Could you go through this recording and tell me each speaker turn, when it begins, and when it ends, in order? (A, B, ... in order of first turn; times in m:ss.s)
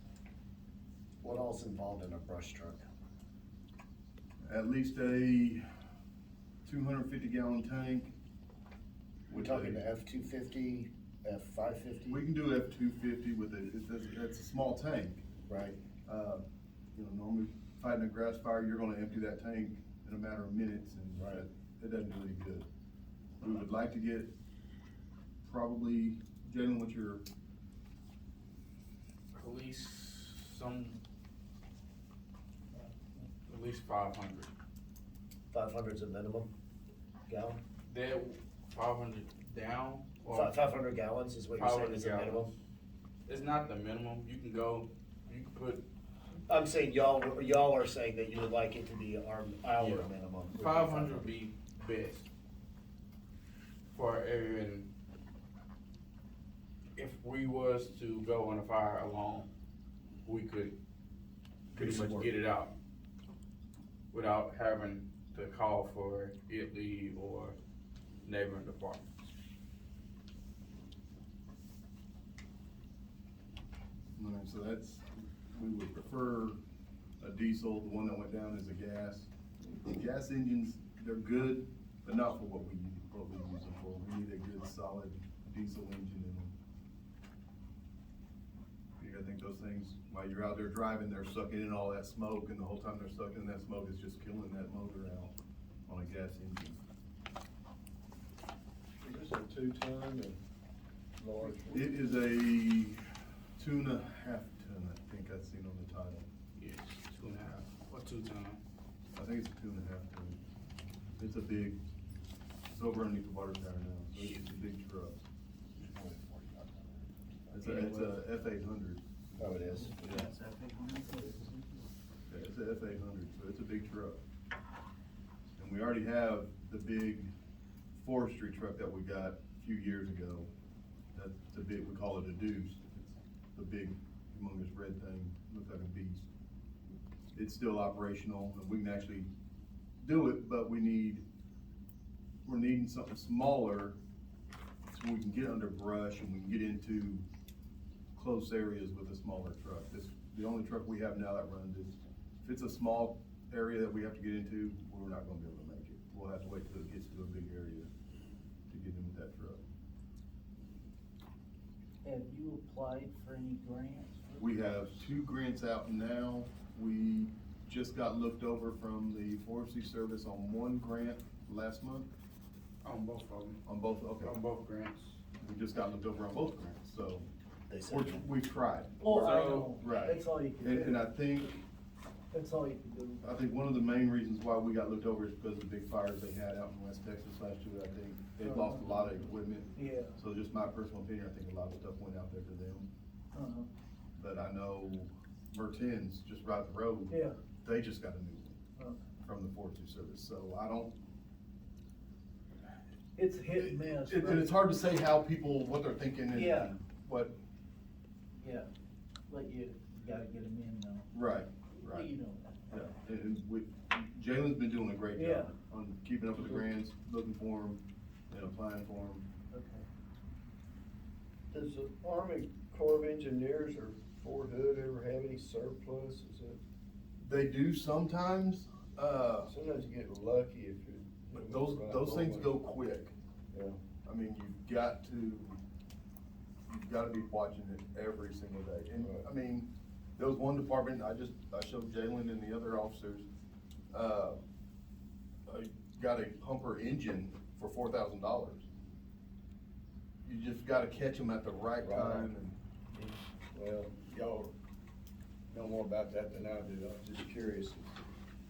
0:01.2-0:02.9 A
0:04.4-0:05.7 B
0:06.6-0:08.1 B
0:09.3-0:12.2 A
0:09.3-0:09.8 B
0:12.1-0:15.2 B
0:15.5-0:15.8 A
0:16.0-0:22.7 B
0:21.2-0:21.4 A
0:23.4-0:24.3 B
0:25.4-0:27.2 B
0:29.3-0:31.0 C
0:33.5-0:34.5 C
0:35.5-0:36.5 A
0:37.3-0:37.6 A
0:37.9-0:40.6 C
0:40.3-0:42.5 A
0:41.5-0:42.5 C
0:43.3-0:45.8 C
0:46.5-0:51.3 A
0:49.7-0:52.3 C
0:53.9-0:54.9 C
0:57.0-0:59.5 C
1:00.2-1:00.7 C
1:01.7-1:02.3 B
1:01.7-1:02.7 C
1:04.1-1:07.5 C
1:08.2-1:09.1 C
1:14.2-1:16.6 B
1:17.2-1:26.5 B
1:29.0-1:35.3 B
1:35.9-1:36.8 B
1:39.0-1:40.4 D
1:41.2-1:41.9 D
1:41.6-1:43.0 B
1:43.6-1:46.3 B
1:46.6-1:48.6 C
1:49.1-1:50.4 B
1:51.2-1:51.8 B
1:52.7-1:55.2 B
1:55.8-1:57.9 A
1:57.5-1:59.0 B
1:59.4-2:00.0 D
1:59.4-2:00.1 A
1:59.7-2:01.8 E
2:02.3-2:04.2 B
2:05.6-2:07.3 B
2:07.9-2:10.5 B
2:11.1-2:16.3 B
2:17.3-2:19.3 B
2:20.0-2:21.2 B
2:22.4-2:24.0 B
2:24.9-2:27.2 B
2:28.1-2:37.9 B
2:38.7-2:39.6 B
2:42.0-2:45.0 E
2:44.4-2:52.1 B
2:52.8-2:53.6 C
2:53.6-2:54.3 B
2:54.2-2:55.2 C
2:55.4-2:57.3 B
2:57.7-2:58.2 A
2:57.8-3:01.6 B
2:59.0-3:01.0 E
2:59.0-2:59.8 C
3:02.3-3:03.2 E
3:03.2-3:12.9 B
3:08.4-3:10.1 E
3:13.3-3:13.7 E
3:14.2-3:18.6 B
3:17.1-3:17.4 E
3:19.2-3:20.9 B
3:23.2-3:24.5 E
3:23.6-3:27.3 B
3:26.3-3:26.7 E
3:28.4-3:28.7 E
3:29.3-3:31.1 E
3:31.1-3:32.1 B
3:31.8-3:32.8 E
3:32.7-3:39.2 B
3:35.1-3:35.5 E
3:39.5-3:39.8 E
3:41.5-3:46.6 D
3:47.2-3:49.5 B
3:49.4-3:52.5 D
3:51.3-3:53.1 B
3:53.5-3:53.8 D
3:54.0-3:55.6 B
3:56.7-4:03.2 B
3:59.0-3:59.2 D
4:03.9-4:04.4 B
4:05.5-4:08.7 B
4:10.2-4:12.6 B
4:11.8-4:12.3 D
4:12.9-4:14.5 D
4:15.5-4:18.0 D